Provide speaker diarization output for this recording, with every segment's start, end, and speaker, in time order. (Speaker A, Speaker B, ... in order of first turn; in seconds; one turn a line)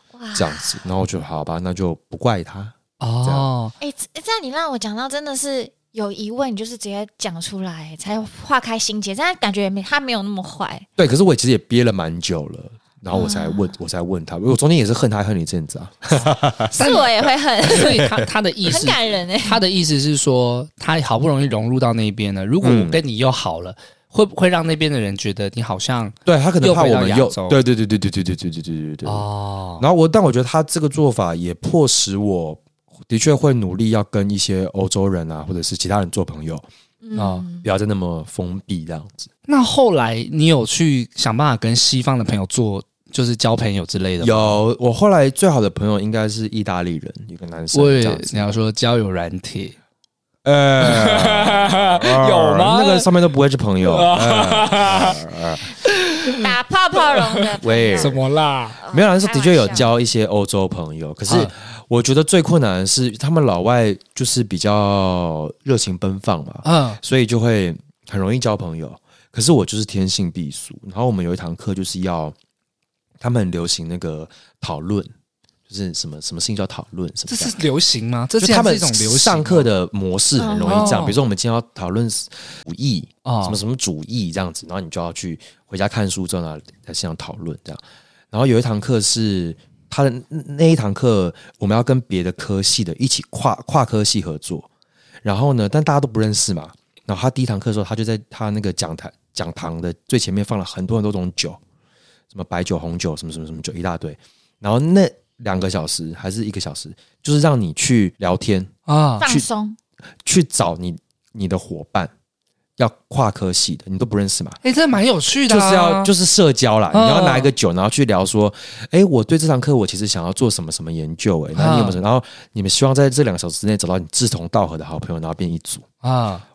Speaker A: 0.1-0.8
Speaker B: 0.3-3.5
Speaker C: 3.0-3.7
Speaker A: 3.8-10.9
Speaker B: 11.0-16.8
Speaker A: 13.1-13.8
Speaker A: 16.7-18.1
Speaker C: 16.7-27.6
Speaker B: 17.8-18.3
Speaker A: 18.6-19.6
Speaker B: 22.6-23.0
Speaker B: 26.3-29.3
Speaker C: 29.1-29.9
Speaker B: 29.8-36.6
Speaker A: 37.0-37.7
Speaker C: 37.2-37.5
Speaker B: 37.6-39.3
Speaker C: 39.5-44.6
Speaker B: 44.2-48.5
Speaker C: 47.7-49.8
Speaker B: 50.5-55.7
Speaker C: 50.8-53.1
Speaker C: 53.8-55.2
Speaker C: 55.8-58.8
Speaker A: 56.4-58.2
Speaker B: 57.6-58.2
Speaker A: 58.8-59.9
Speaker B: 58.9-72.3
Speaker C: 66.6-67.0
Speaker B: 73.2-75.1
Speaker B: 75.7-77.6
Speaker C: 77.3-79.7
Speaker B: 78.4-94.7
Speaker A: 80.4-81.0
Speaker C: 80.6-81.2
Speaker C: 83.2-83.6
Speaker B: 95.2-101.6
Speaker B: 102.3-108.7
Speaker C: 108.9-109.2
Speaker A: 109.2-109.8
Speaker B: 110.2-112.1
Speaker B: 112.8-114.6
Speaker C: 114.6-116.1
Speaker B: 115.5-125.9
Speaker C: 116.9-117.5
Speaker C: 121.5-122.0
Speaker C: 126.0-126.5